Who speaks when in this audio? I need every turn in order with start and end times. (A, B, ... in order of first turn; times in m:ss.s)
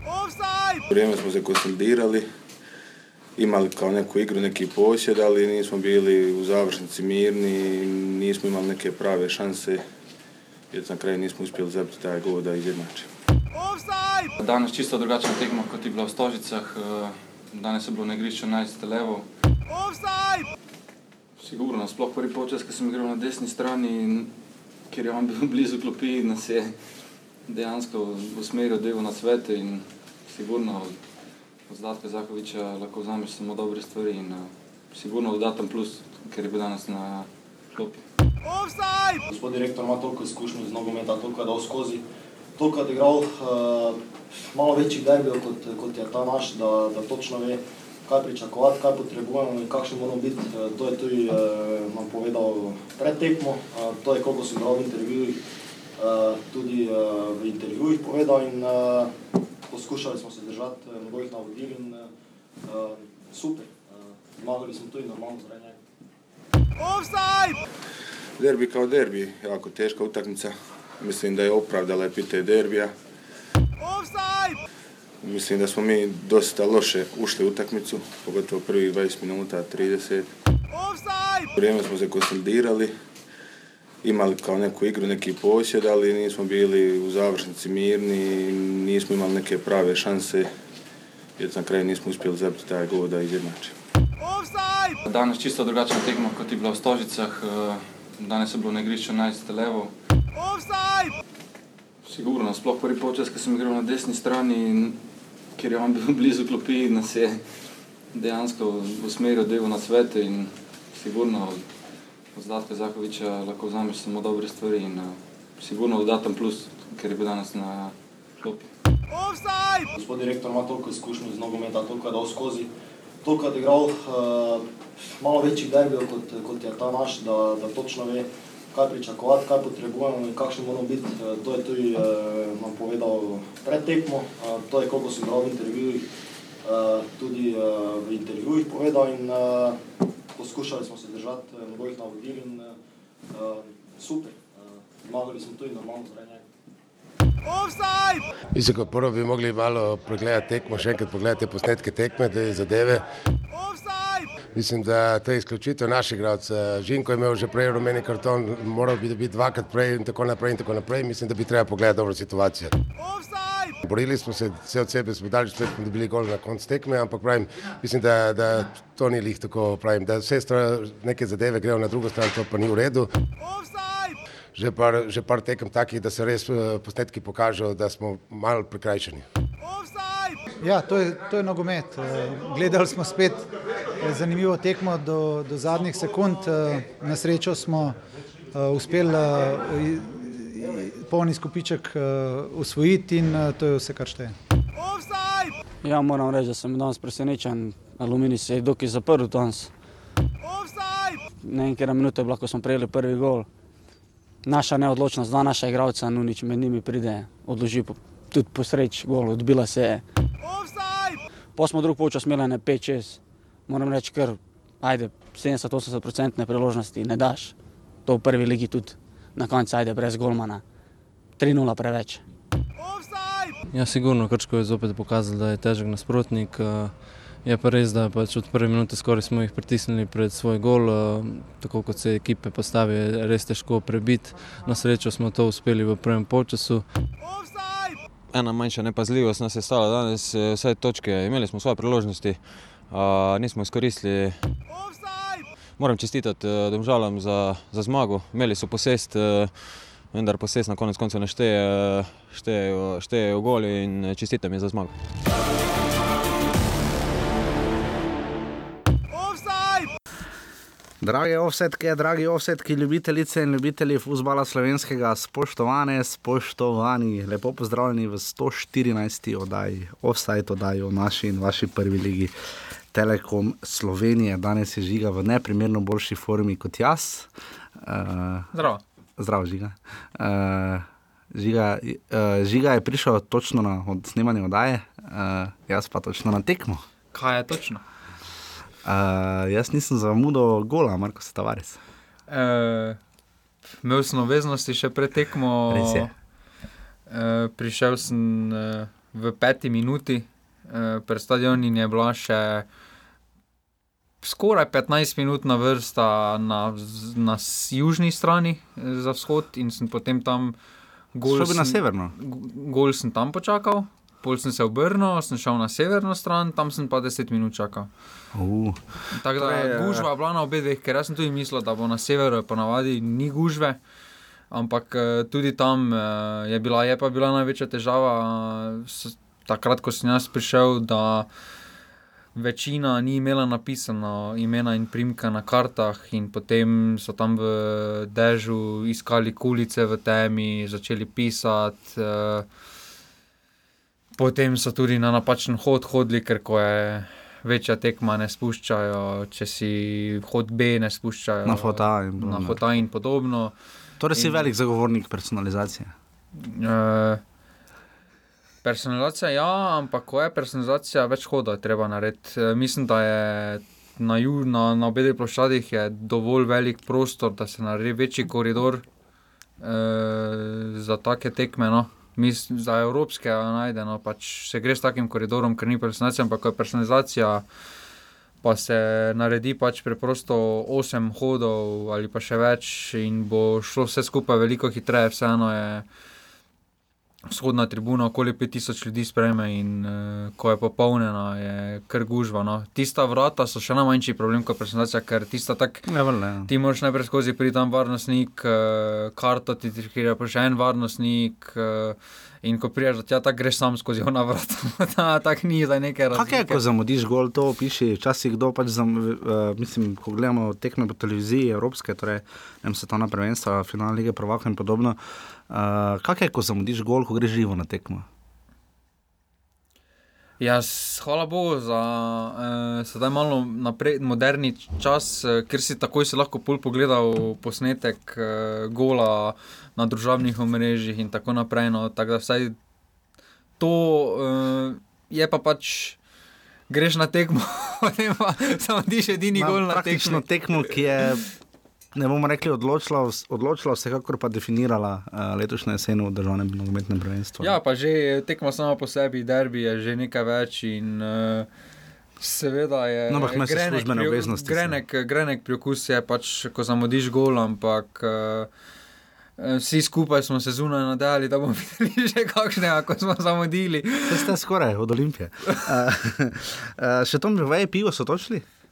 0:00.9-0:02.3 A
0:03.4-0:09.8 A
0:10.7-0:13.1 A
0:14.4-0:19.2 B
0:21.4-0:24.3 B
0:24.9-0:26.7 B
0:27.5-0:31.0 B
0:31.7-0:38.0 B
0:39.3-0:42.0 C
0:42.6-0:55.4 C
0:56.0-0:59.1 C
0:59.7-1:02.1 C
1:02.6-1:05.8 C
1:08.4-1:12.9 A
1:15.2-1:20.3 A
1:21.6-1:22.9 A
1:24.0-1:30.5 A
1:31.4-1:33.7 A
1:35.0-1:39.9 B
1:42.0-1:45.0 B
1:45.6-1:47.4 B
1:48.1-1:51.6 B
1:52.3-1:58.7 B
1:59.9-2:02.7 C
2:03.2-2:16.0 C
2:16.6-2:19.8 C
2:20.4-2:22.8 C
2:23.3-2:26.4 C
2:28.5-2:33.0 D
2:34.5-2:42.7 D
2:43.8-2:53.1 D
2:54.5-2:59.2 D
3:00.6-3:08.0 E
3:08.5-3:14.4 E
3:15.8-3:19.7 F
3:21.4-3:23.5 F
3:24.4-3:30.0 F
3:31.6-3:37.5 F
3:38.0-3:40.6 F
3:41.4-3:42.2 F
3:43.7-3:56.9 G
3:58.3-4:04.5 H
4:05.8-4:14.9 H
4:21.0-4:32.3 I
4:32.9-4:38.5 I
4:38.5-4:38.8 J
4:39.2-4:46.8 I
4:47.1-4:47.8 J
4:48.8-4:51.8 I
4:52.3-4:53.0 J
4:53.8-4:56.1 J
4:55.7-4:56.1 I
4:57.1-5:02.6 J
5:04.2-5:10.6 J
5:11.1-5:17.9 J
5:11.2-5:12.1 I
5:18.3-5:20.1 I
5:19.1-5:23.8 J
5:24.5-5:31.3 J
5:32.3-5:42.5 J
5:44.2-5:53.5 J
5:51.4-5:52.6 I
5:54.0-5:55.9 I
5:54.1-5:54.5 J
5:56.4-5:57.2 J
5:58.6-6:08.8 J
6:09.6-6:17.4 J
6:18.4-6:25.8 J
6:27.3-6:35.9 J
6:35.8-6:36.5 I
6:36.5-6:46.6 J
6:46.1-6:55.0 I
6:55.5-6:58.1 I
7:00.4-7:12.6 J
7:13.6-7:16.0 J
7:16.7-7:21.0 J
7:19.3-7:21.2 I
7:21.9-7:27.5 I
7:27.4-7:31.5 J
7:32.2-7:38.5 J
7:33.1-7:34.8 I
7:39.4-7:44.3 J
7:44.1-7:48.4 I